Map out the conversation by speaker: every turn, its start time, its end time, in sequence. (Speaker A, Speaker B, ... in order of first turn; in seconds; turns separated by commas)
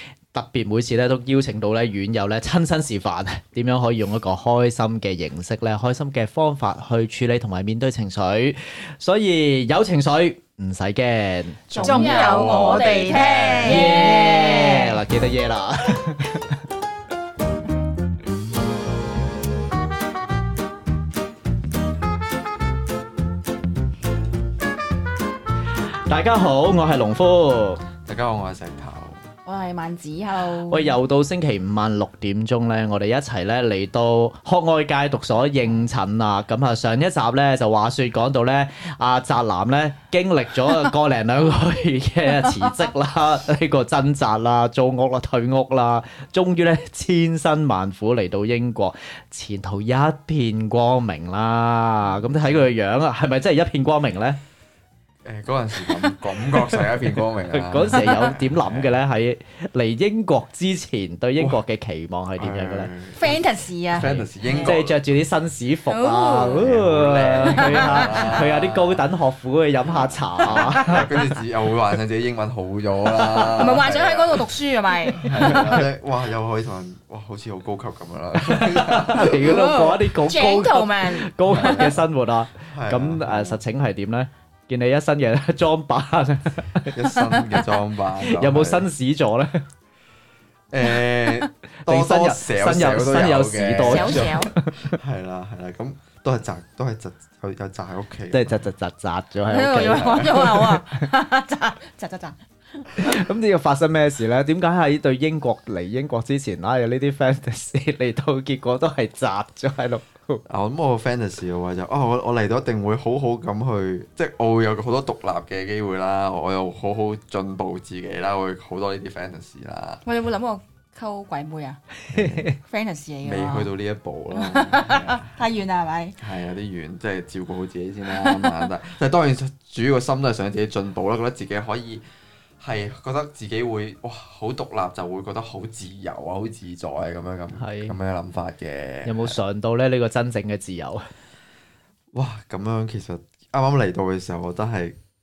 Speaker A: 0.3-12.2, Speaker B: 11.7-14.0, Speaker C: 11.8-15.0, Speaker A: 13.6-16.6, Speaker A: 26.1-27.8, Speaker B: 28.0-29.2, Speaker C: 29.4-31.0, Speaker A: 30.5-54.4, Speaker C: 42.4-42.7, Speaker B: 52.1-52.7, Speaker B: 55.2-59.0, Speaker A: 57.5-62.9, Speaker C: 57.9-58.3, Speaker B: 62.4-65.0, Speaker C: 63.1-64.7, Speaker A: 64.6-71.0, Speaker C: 65.9-66.7, Speaker B: 66.5-69.1, Speaker C: 67.4-68.4, Speaker B: 69.8-74.5, Speaker C: 70.4-71.0, Speaker A: 73.1-73.8, Speaker C: 73.5-75.6, Speaker B: 75.2-79.6, Speaker A: 75.2-75.8, Speaker A: 78.4-89.6, Speaker C: 79.2-81.9, Speaker B: 81.5-82.0, Speaker B: 82.7-83.6, Speaker B: 86.8-88.9, Speaker B: 90.7-98.7, Speaker A: 91.7-94.9, Speaker C: 93.8-94.5, Speaker A: 98.3-100.7, Speaker C: 99.5-103.0, Speaker B: 99.8-100.7, Speaker A: 103.0-110.4, Speaker B: 110.5-120.0, Speaker C: 120.0-121.8, Speaker A: 122.1-122.5, Speaker B: 122.1-122.6, Speaker C: 122.6-123.7, Speaker B: 123.2-125.4, Speaker C: 124.3-126.2, Speaker B: 126.2-132.0, Speaker C: 128.1-128.6, Speaker B: 132.6-139.4, Speaker A: 137.6-138.0, Speaker A: 139.0-141.1, Speaker B: 142.1-144.9